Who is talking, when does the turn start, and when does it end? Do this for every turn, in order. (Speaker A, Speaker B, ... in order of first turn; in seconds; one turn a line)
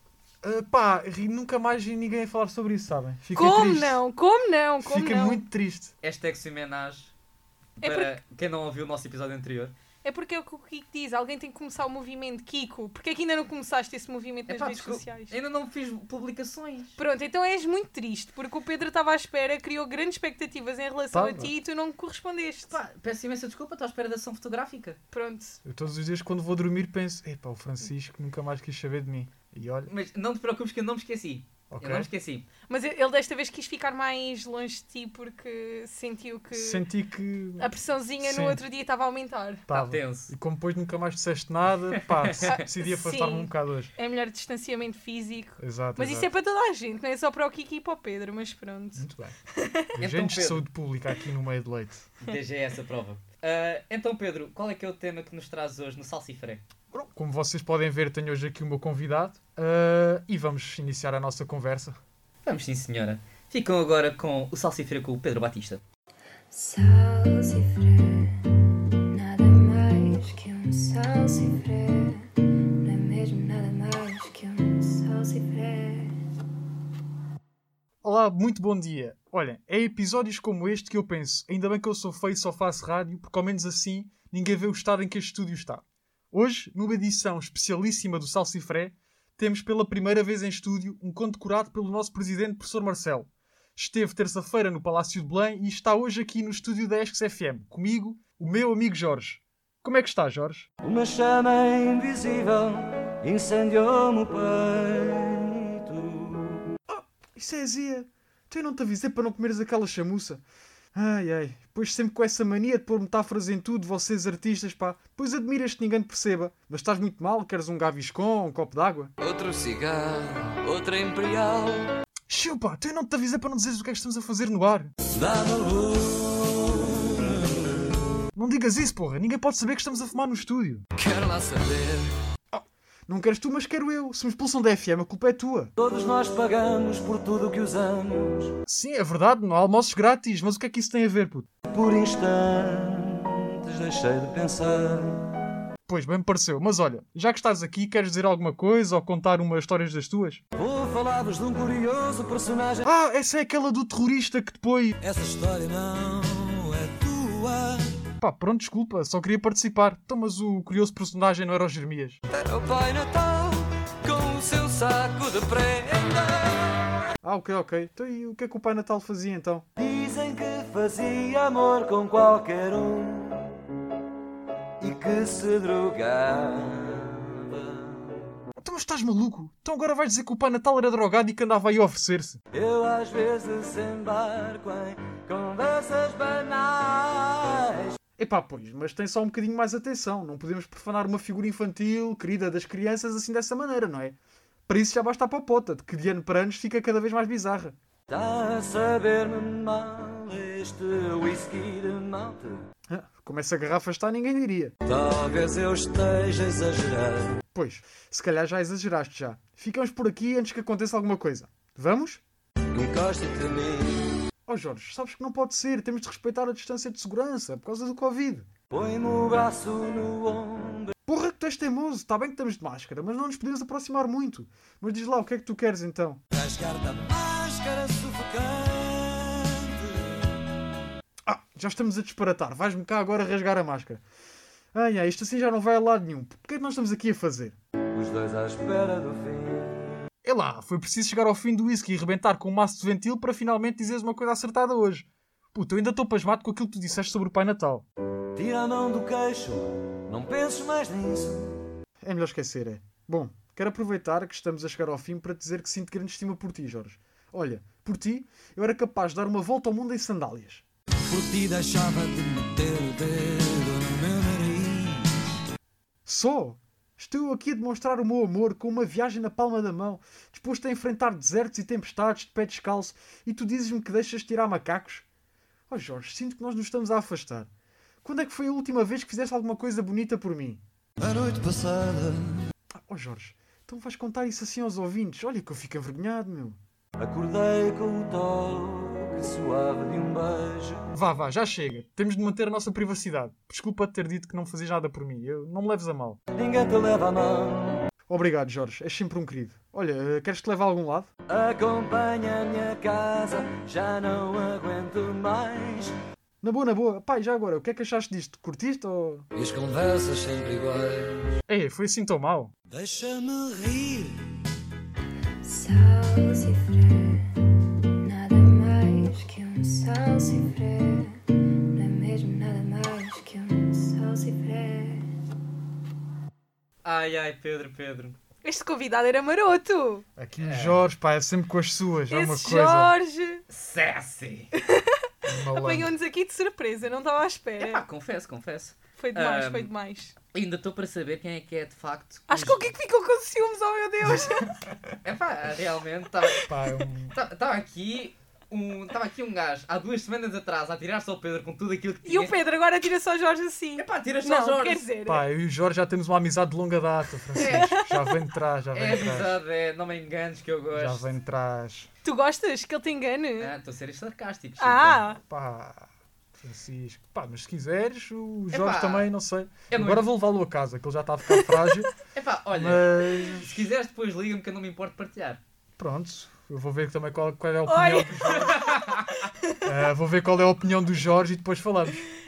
Speaker A: 0.4-4.0
Speaker B: 3.4-5.4
Speaker A: 4.8-5.9
Speaker C: 6.0-7.1
Speaker C: 7.8-9.7
Speaker B: 7.8-8.2
Speaker B: 10.0-15.3
Speaker C: 14.5-17.0
Speaker B: 17.0-22.8
Speaker A: 21.1-21.5
Speaker C: 22.7-25.0
Speaker B: 25.1-25.6
Speaker A: 25.6-29.9
Speaker C: 29.9-32.5
Speaker A: 31.7-32.1
Speaker B: 32.7-36.9
Speaker A: 36.5-37.7
Speaker B: 37.6-39.7
Speaker A: 38.2-38.6
Speaker A: 39.7-43.9
Speaker C: 39.7-40.3
Speaker C: 41.9-42.5
Speaker B: 42.5-50.0
Speaker A: 45.6-46.3
Speaker A: 49.0-49.4
Speaker A: 50.0-52.1
Speaker C: 50.0-50.7
Speaker C: 52.2-56.6
Speaker A: 56.9-62.0
Speaker C: 62.5-65.8
Speaker D: 66.5-68.4
Speaker D: 69.1-76.2
Speaker A: 78.0-100.7
Speaker E: 100.8-106.7
Speaker A: 106.9-110.4
Speaker A: 110.9-119.1
Speaker E: 119.2-121.9
Speaker A: 122.3-124.9
Speaker E: 125.1-127.9
Speaker A: 128.3-130.8
Speaker E: 131.0-132.1
Speaker A: 132.5-135.7
Speaker E: 135.8-138.6
Speaker A: 138.7-141.5
Speaker E: 141.7-145.3
Speaker A: 145.9-150.4
Speaker E: 150.6-152.9
Speaker A: 152.8-155.0
Speaker E: 155.0-158.0
Speaker A: 158.2-162.2
Speaker E: 162.3-166.8
Speaker A: 167.2-169.7
Speaker E: 169.8-173.5
Speaker E: 174.8-178.2
Speaker A: 178.6-182.4
Speaker E: 182.5-188.0
Speaker A: 188.2-197.8
Speaker E: 198.1-202.6
Speaker A: 202.9-204.7
Speaker E: 204.9-207.4
Speaker A: 207.5-212.2
Speaker E: 212.7-214.2
Speaker A: 214.5-218.5
Speaker E: 218.7-220.9
Speaker A: 221.1-226.2
Speaker E: 226.3-230.4
Speaker A: 231.2-234.0
Speaker A: 234.7-237.6
Speaker E: 237.9-240.0
Speaker A: 240.2-247.9
Speaker E: 248.3-251.6
Speaker A: 252.0-260.6
Speaker E: 261.1-265.2
Speaker A: 266.1-275.1
Speaker A: 275.7-277.5
Speaker A: 278.0-280.6
Speaker E: 281.0-282.5
Speaker A: 282.7-286.6
Speaker E: 287.0-290.9
Speaker A: 290.9-296.2
Speaker E: 296.3-297.9
Speaker A: 298.1-301.1
Speaker E: 301.3-305.9
Speaker A: 306.4-309.3
Speaker E: 309.4-311.4
Speaker A: 311.5-312.5
Speaker E: 312.7-314.4
Speaker D: 315.4-317.3
Speaker D: 318.0-325.1
Speaker C: 326.8-328.2
Speaker B: 328.4-330.1
Speaker A: 330.2-332.9
Speaker C: 330.4-330.8
Speaker B: 332.1-333.4
Speaker C: 333.5-334.5
Speaker B: 334.6-337.8
Speaker A: 335.2-335.9
Speaker C: 337.6-339.7
Speaker B: 339.0-340.1
Speaker C: 340.3-342.6
Speaker B: 342.3-344.5
Speaker C: 345.0-346.4
Speaker A: 346.5-347.1
Speaker C: 347.1-352.4
Speaker B: 352.1-355.2
Speaker C: 353.8-354.9
Speaker A: 355.1-359.4
Speaker B: 357.4-358.1
Speaker C: 357.4-357.8
Speaker C: 358.7-361.1
Speaker A: 360.7-361.9
Speaker B: 362.0-363.5
Speaker C: 363.4-365.0
Speaker B: 364.6-365.2
Speaker A: 365.3-365.9
Speaker A: 366.4-371.9
Speaker C: 368.5-369.1
Speaker C: 369.7-370.1
Speaker C: 372.1-375.4
Speaker A: 372.5-373.7
Speaker A: 375.8-378.7
Speaker B: 377.7-379.6
Speaker C: 378.4-379.1
Speaker A: 379.6-382.0